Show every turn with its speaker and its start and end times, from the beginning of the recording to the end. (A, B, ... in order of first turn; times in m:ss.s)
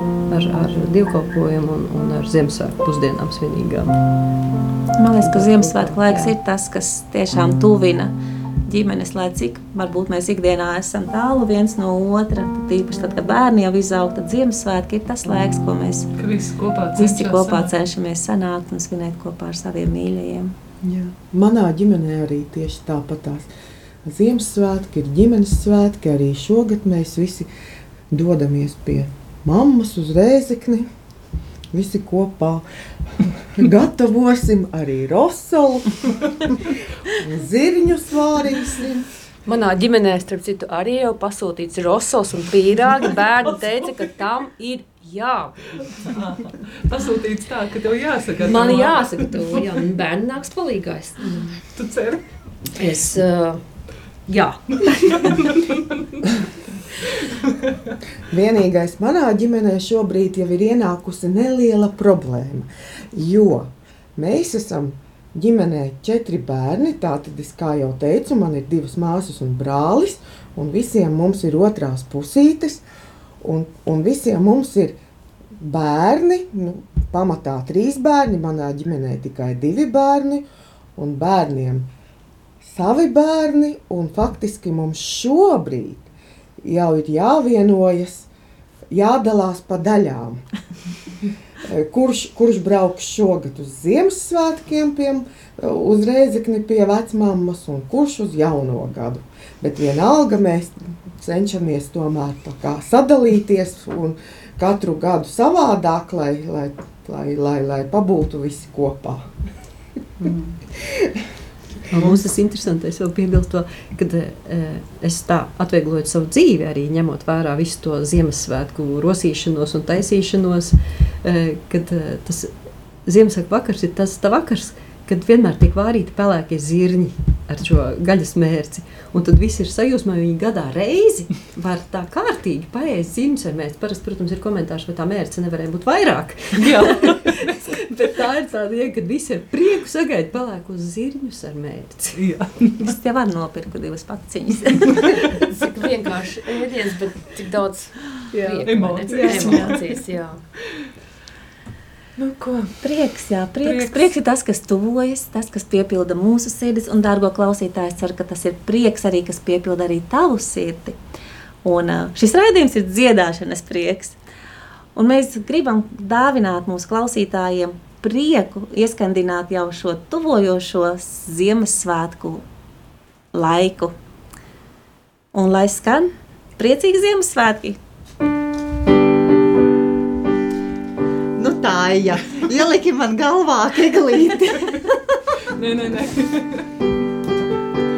0:00.3-0:04.0 A
0:05.0-0:08.1 B
0:05.2-0:06.3 A
0:08.7-0:16.1 B
0:16.2-0:17.7 C
0:17.0-0:20.5 B
0:20.8-0:23.5 D
0:24.0-0:27.5 D
0:28.1-0:30.9 D
0:31.7-0:32.6 D
0:33.2-0:39.1 D
0:39.4-0:45.6 E
0:46.0-0:49.8 C
0:48.4-0:51.6 E
0:51.3-0:52.2 C
0:52.7-0:53.6 E
0:54.3-0:55.7 E
0:54.8-0:55.8 C
0:57.2-0:57.7 C
0:58.3-1:12.8 D
1:13.4-1:15.0 D
1:15.6-1:21.9 D
1:22.6-1:26.1 D
1:26.6-1:28.3 D
1:28.9-1:30.4 D
1:31.6-1:49.3 D
1:50.2-1:50.5 F
1:50.8-1:51.1 D
1:51.9-2:02.5 A
2:03.0-2:22.2 A
2:16.6-2:17.8 C
2:22.1-2:22.9 C
2:22.8-2:25.2 B
2:25.2-2:30.4 E
2:28.3-2:29.8 A
2:28.6-2:30.0 C
2:32.2-2:32.8 C
2:32.8-2:41.0 B
2:33.6-2:34.1 C
2:41.6-2:44.2 B
2:44.9-2:52.4 B
2:53.3-2:53.9 B
2:55.3-2:57.8 B
3:01.4-3:05.0 F
3:05.5-3:06.7 C